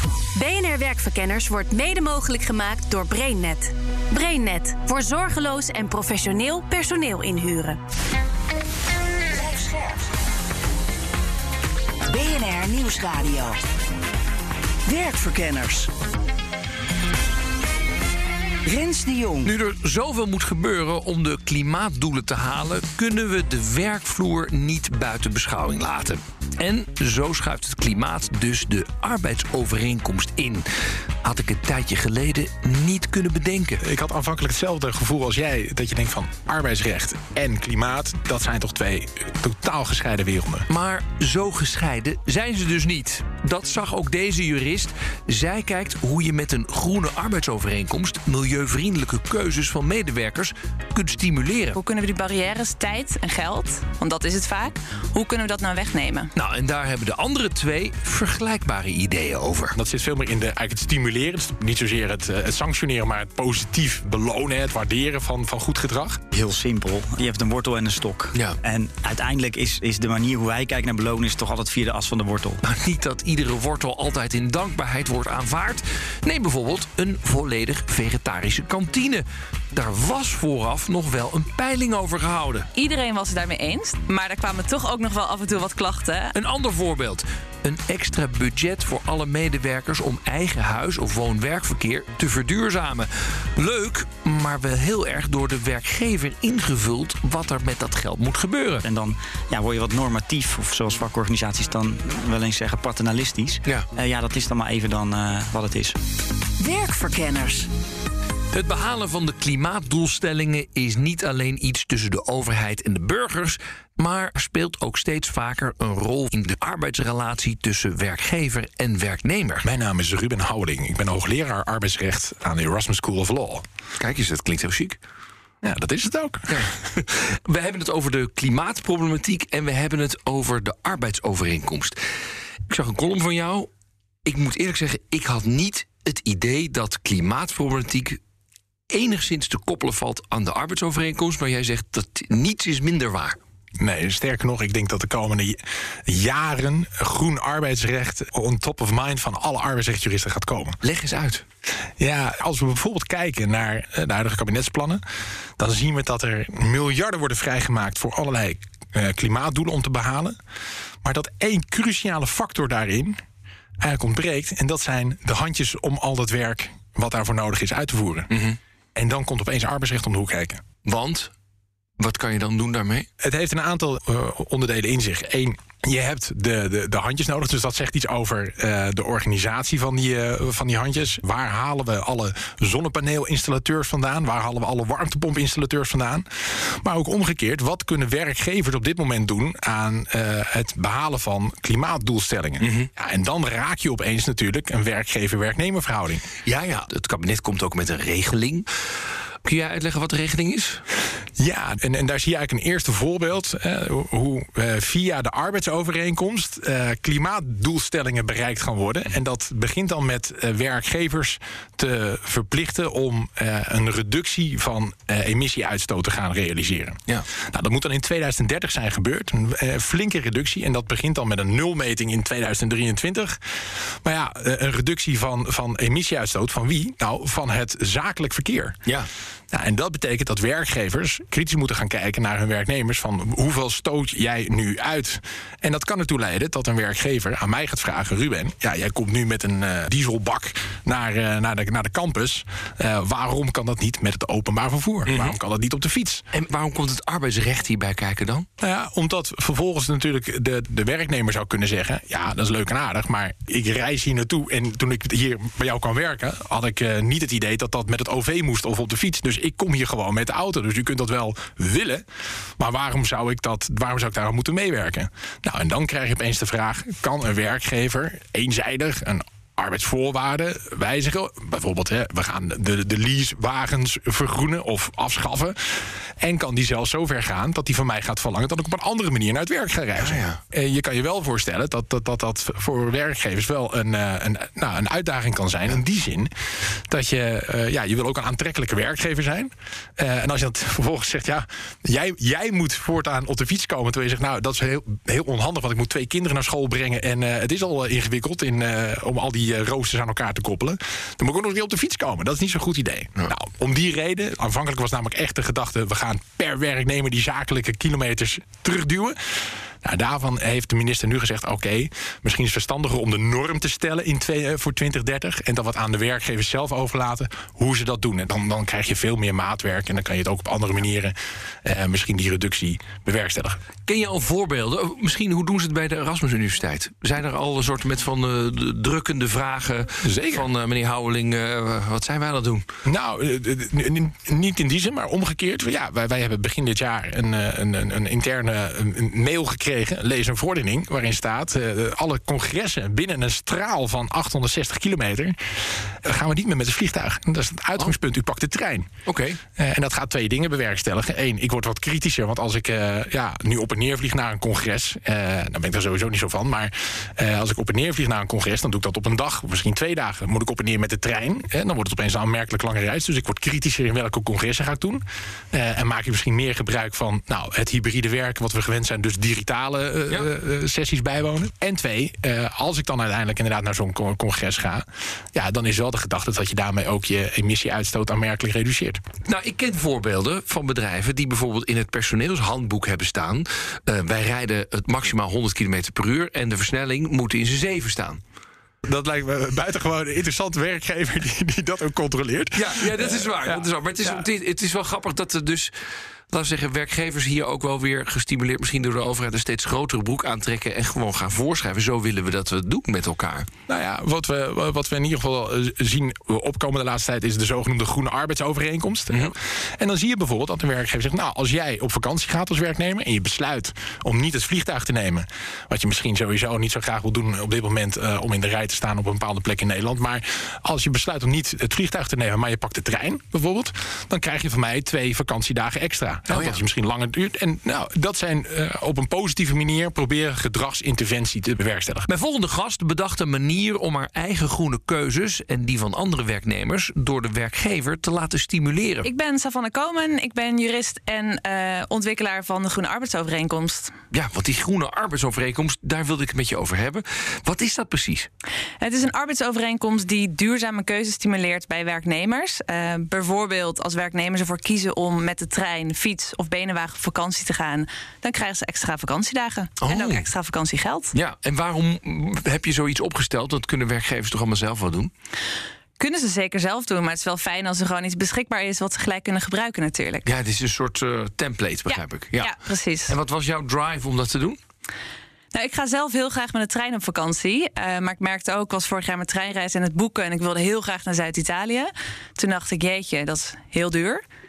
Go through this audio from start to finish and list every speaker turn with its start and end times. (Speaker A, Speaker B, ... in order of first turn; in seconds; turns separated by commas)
Speaker A: 0.4-7.8, Speaker B: 9.3-10.0, Speaker B: 12.1-13.6, Speaker B: 14.9-15.9, Speaker B: 18.6-19.5, Speaker C: 19.4-30.7, Speaker C: 31.2-33.8, Speaker D: 33.8-40.6, Speaker C: 40.7-51.8, Speaker E: 51.8-56.3, Speaker C: 56.4-59.8, Speaker D: 59.8-66.2, Speaker F: 66.3-72.6, Speaker C: 72.6-82.7, Speaker E: 82.8-86.3, Speaker C: 86.3-98.8, Speaker F: 98.8-106.0, Speaker B: 106.6-107.7, Speaker C: 108.5-119.7, Speaker D: 119.6-123.6, Speaker C: 124.0-125.0, Speaker D: 125.6-126.7, Speaker C: 126.5-132.0, Speaker C: 132.7-133.7, Speaker C: 134.2-138.2, Speaker C: 138.9-143.4, Speaker D: 143.8-150.8, Speaker C: 150.8-151.4, Speaker D: 152.0-155.0, Speaker D: 155.6-160.4, Speaker D: 161.0-163.2, Speaker D: 163.8-168.3, Speaker C: 168.3-168.6, Speaker D: 168.9-170.6, Speaker C: 170.9-171.3, Speaker C: 172.0-173.1, Speaker D: 173.2-196.3, Speaker C: 192.6-192.9, Speaker C: 196.4-198.7, Speaker C: 199.4-200.8, Speaker D: 201.4-223.4, Speaker D: 224.0-228.8, Speaker D: 229.5-246.2, Speaker C: 245.1-245.3, Speaker C: 246.3-248.5, Speaker D: 248.6-262.0, Speaker D: 262.6-286.3, Speaker C: 280.0-280.4, Speaker D: 286.9-309.2, Speaker D: 309.8-323.6, Speaker C: 323.9-332.6, Speaker D: 330.0-330.5, Speaker D: 332.9-348.9, Speaker C: 349.1-349.4, Speaker D: 349.6-379.0, Speaker C: 379.3-388.2, Speaker D: 388.9-394.3, Speaker C: 392.6-395.7, Speaker C: 396.3-403.5, Speaker D: 403.7-432.1, Speaker C: 426.3-426.6, Speaker C: 432.1-439.1, Speaker E: 439.0-443.9, Speaker C: 444.1-448.3, Speaker E: 448.8-461.1, Speaker C: 459.8-460.3, Speaker C: 461.1-465.1, Speaker E: 466.0-470.3, Speaker C: 470.3-472.6, Speaker E: 471.9-473.1, Speaker C: 473.1-474.6, Speaker E: 475.5-484.2